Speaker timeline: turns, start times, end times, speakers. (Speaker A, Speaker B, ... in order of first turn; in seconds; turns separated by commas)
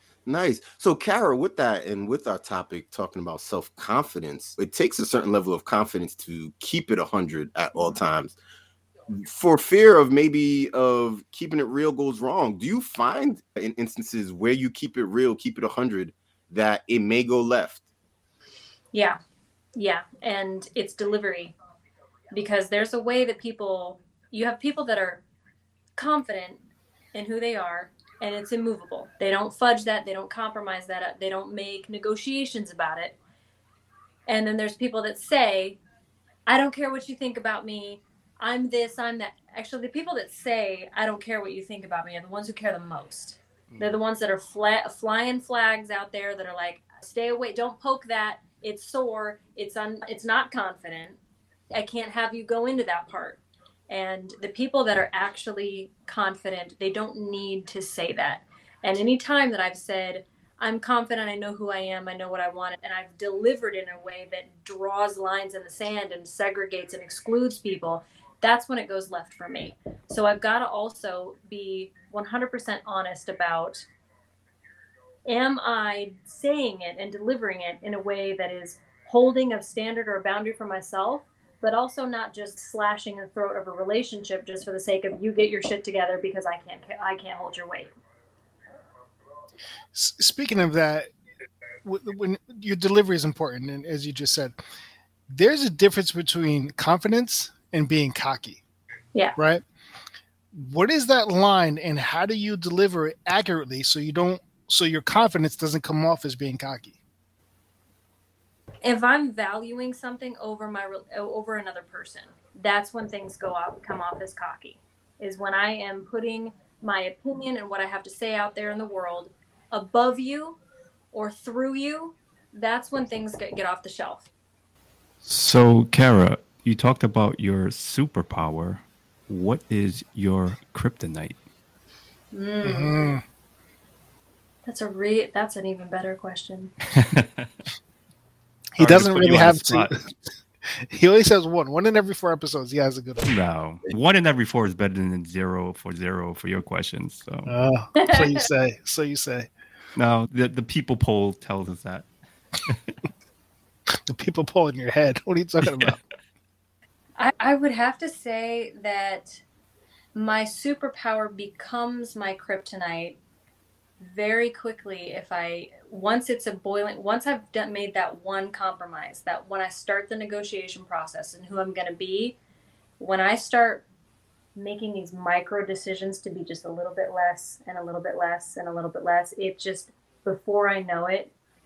Speaker A: 0.3-8.4, Speaker A: 9.1-17.8, Speaker B: 18.9-19.2, Speaker B: 19.8-21.6, Speaker B: 22.3-25.2, Speaker B: 26.0-26.6, Speaker B: 27.1-33.2, Speaker B: 34.3-35.8, Speaker B: 36.5-51.2, Speaker C: 43.7-44.0, Speaker B: 51.7-73.9, Speaker B: 75.3-87.9, Speaker D: 89.9-91.1, Speaker D: 91.8-94.5, Speaker D: 95.3-98.6, Speaker D: 99.4-99.6, Speaker D: 100.5-107.0, Speaker B: 108.8-120.6, Speaker B: 121.1-124.3, Speaker C: 125.2-131.4, Speaker B: 132.3-133.2, Speaker D: 132.6-133.2, Speaker B: 134.7-136.7, Speaker C: 136.9-137.5, Speaker D: 138.8-140.1, Speaker C: 138.8-140.0, Speaker D: 140.7-143.4, Speaker C: 143.3-147.5, Speaker D: 147.5-149.5, Speaker B: 148.0-148.4, Speaker C: 150.0-152.1, Speaker C: 152.7-152.9, Speaker D: 154.1-156.0, Speaker C: 155.7-155.9, Speaker B: 157.2-159.4, Speaker B: 160.2-163.2, Speaker B: 164.0-172.4, Speaker B: 173.0-173.8, Speaker B: 174.6-181.3